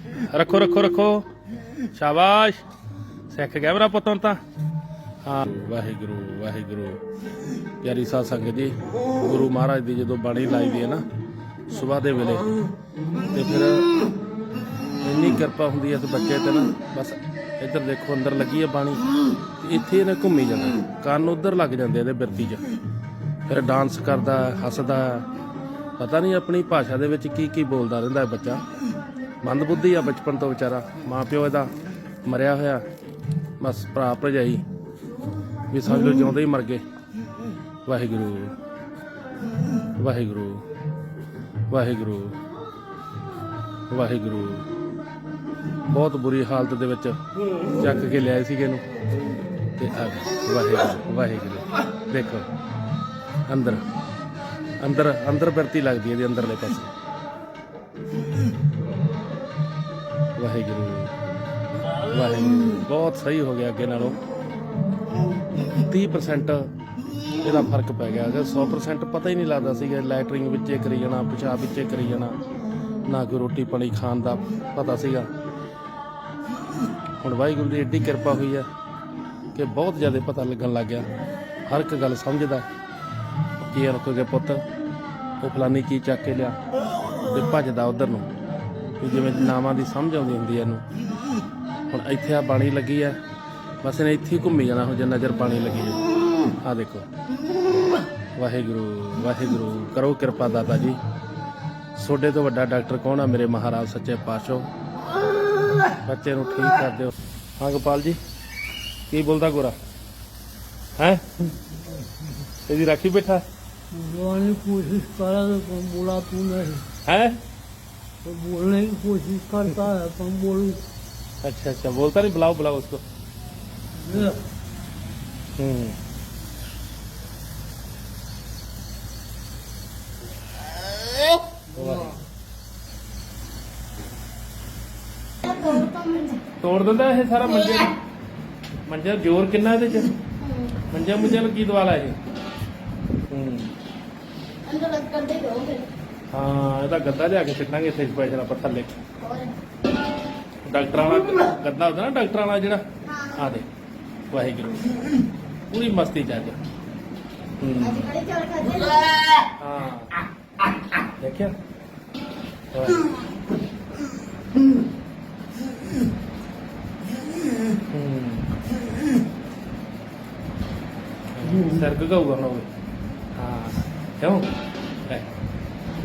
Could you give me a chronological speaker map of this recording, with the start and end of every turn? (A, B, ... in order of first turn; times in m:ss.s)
0:00.2-0:01.3 A
0:01.9-0:02.6 A
0:03.3-0:04.4 A
0:05.2-0:07.0 A
0:07.8-0:11.0 A
0:11.7-0:12.5 A
0:13.3-0:13.9 A
0:15.0-0:19.0 A
0:19.6-0:22.6 A
0:23.5-0:25.2 A
0:26.0-0:28.6 A
0:29.4-0:31.7 A
0:32.2-0:32.8 A
0:33.6-0:34.6 A
0:35.7-0:36.8 A
0:37.8-0:38.5 A
0:39.9-0:40.6 A
0:41.7-0:42.4 A
0:43.9-0:44.7 A
0:45.9-0:47.2 A
0:47.7-0:48.8 A
0:49.8-0:52.5 A
0:53.5-0:53.8 A
0:54.8-0:56.9 A
1:00.4-1:01.1 A
1:02.0-1:04.2 A
1:05.7-1:06.7 A
1:07.4-1:12.4 A
1:13.0-1:15.3 A
1:17.2-1:18.7 A
1:19.5-1:21.1 A
1:21.7-1:22.6 A
1:23.6-1:24.6 A
1:25.4-1:26.6 A
1:27.2-1:28.3 A
1:29.0-1:30.8 A
1:31.9-1:33.2 A
1:33.8-1:36.0 A
1:36.6-1:37.1 A
1:38.4-1:41.0 A
1:42.0-1:44.7 A
1:46.0-1:48.2 A
1:49.1-1:49.8 A
1:51.0-1:51.5 A
1:52.5-1:53.4 A
1:53.9-1:56.8 B
1:57.0-1:57.4 A
1:58.2-2:00.8 B
2:01.4-2:03.0 A
2:04.0-2:04.4 B
2:05.6-2:06.0 A
2:11.7-2:12.1 A
2:15.4-2:16.4 C
2:16.6-2:17.9 A
2:18.8-2:20.1 A
2:20.4-2:20.7 C
2:20.9-2:22.2 A
2:23.3-2:23.7 A
2:24.6-2:25.9 C
2:26.3-2:29.0 A
2:29.2-2:29.5 C
2:30.6-2:33.7 A
2:34.3-2:35.0 A
2:35.7-2:36.6 A
2:37.6-2:38.1 A
2:37.8-2:39.1 C
2:39.6-2:40.1 A
2:41.2-2:41.6 A
2:42.7-2:43.1 A
2:47.9-2:48.5 A
2:51.3-2:52.7 A
2:53.3-2:54.5 A